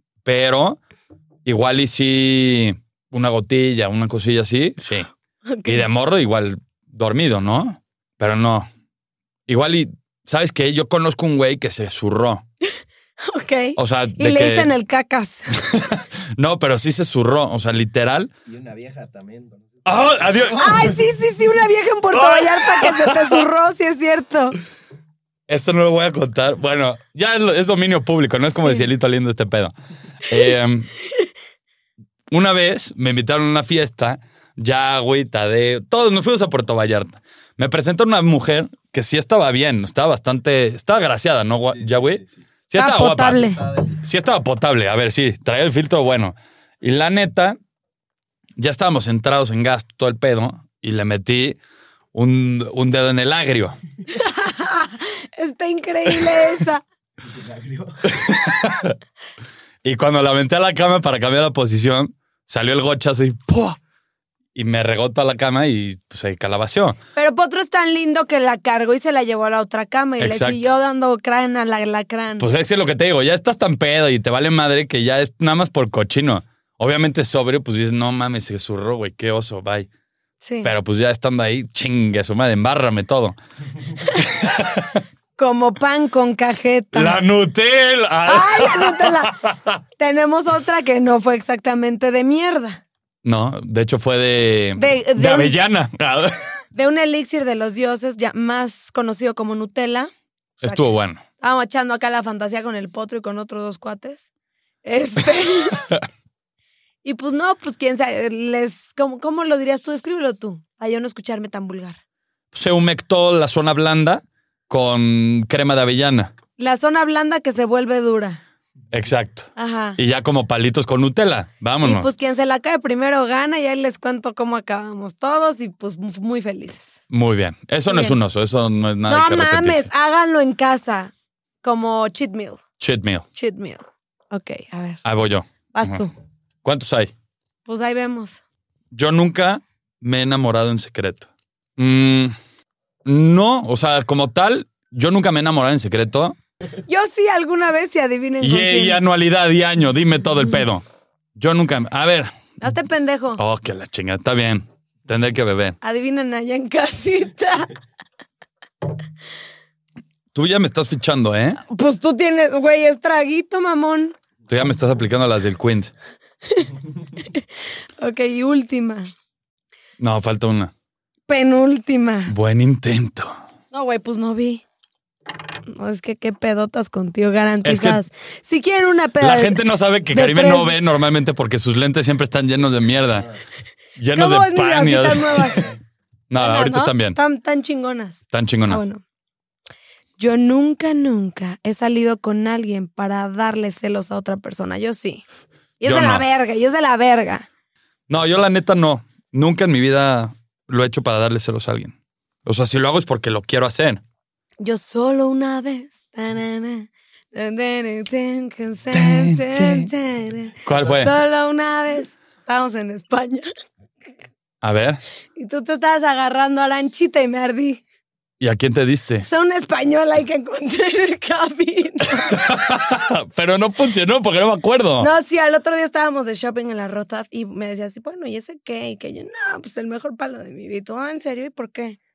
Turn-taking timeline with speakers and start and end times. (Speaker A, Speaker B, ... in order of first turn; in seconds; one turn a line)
Speaker A: 0.2-0.8
Speaker A: 1.4-5.1
Speaker B: 5.5-5.8
Speaker A: 5.7-8.7
Speaker A: 9.5-12.4
Speaker B: 13.2-15.6
Speaker A: 13.8-14.7
Speaker A: 15.6-18.3
Speaker C: 18.5-20.9
Speaker A: 19.8-20.9
Speaker B: 20.6-24.6
Speaker A: 22.1-23.4
Speaker A: 25.5-29.7
Speaker A: 30.3-30.9
Speaker A: 32.3-43.5
Speaker C: 41.7-42.4
Speaker B: 42.8-43.6
Speaker C: 43.4-44.0
Speaker A: 44.0-47.6
Speaker A: 48.6-51.6
Speaker A: 52.1-53.8
Speaker B: 54.1-56.8
Speaker C: 57.2-58.0
Speaker A: 58.1-58.9
Speaker A: 59.8-63.8
Speaker A: 64.5-67.0
Speaker B: 67.2-72.5
Speaker A: 70.2-70.7
Speaker A: 72.4-79.9
Speaker B: 80.4-80.7
Speaker A: 80.6-83.4
Speaker A: 84.2-85.0
Speaker B: 85.4-87.2
Speaker A: 86.9-89.8
Speaker B: 88.3-89.3
Speaker B: 90.0-92.8
Speaker A: 93.2-96.4
Speaker B: 94.8-95.5
Speaker B: 96.7-100.8
Speaker A: 100.6-101.2
Speaker B: 101.4-104.3
Speaker B: 104.8-105.9
Speaker B: 107.0-112.0
Speaker A: 112.5-116.3
Speaker B: 116.6-118.4
Speaker A: 118.9-122.1
Speaker B: 119.6-120.0
Speaker B: 121.8-127.0
Speaker A: 127.1-129.9
Speaker B: 127.9-128.2
Speaker B: 129.1-132.6
Speaker A: 132.8-133.2
Speaker B: 133.3-135.0
Speaker A: 135.0-136.0
Speaker B: 135.7-136.1
Speaker A: 136.6-137.1
Speaker B: 137.7-138.4
Speaker A: 138.9-142.3
Speaker A: 143.0-146.4
Speaker B: 146.9-149.0
Speaker A: 148.4-150.8
Speaker A: 151.4-152.3
Speaker B: 152.6-153.4
Speaker A: 153.4-155.8
Speaker B: 155.8-157.7
Speaker A: 160.3-161.6
Speaker B: 161.7-164.1
Speaker A: 164.5-165.9
Speaker B: 166.5-167.4
Speaker B: 168.0-169.1
Speaker A: 170.0-170.7
Speaker B: 171.3-172.3
Speaker A: 172.3-173.4
Speaker B: 173.7-174.6
Speaker B: 175.7-179.6
Speaker A: 177.6-178.0
Speaker A: 179.2-183.3
Speaker B: 180.1-180.7
Speaker A: 184.0-185.6
Speaker B: 184.1-185.7
Speaker A: 186.3-187.2
Speaker B: 186.4-189.0
Speaker A: 188.3-188.8
Speaker B: 190.2-195.2
Speaker B: 195.8-197.4
Speaker A: 195.8-196.2
Speaker A: 198.1-201.9
Speaker A: 202.4-204.0
Speaker B: 204.6-213.4
Speaker A: 208.9-209.9
Speaker A: 210.6-211.1
Speaker A: 214.6-215.0
Speaker B: 215.4-217.8
Speaker A: 218.4-219.3
Speaker B: 219.2-222.5
Speaker A: 222.3-225.1
Speaker B: 225.0-232.0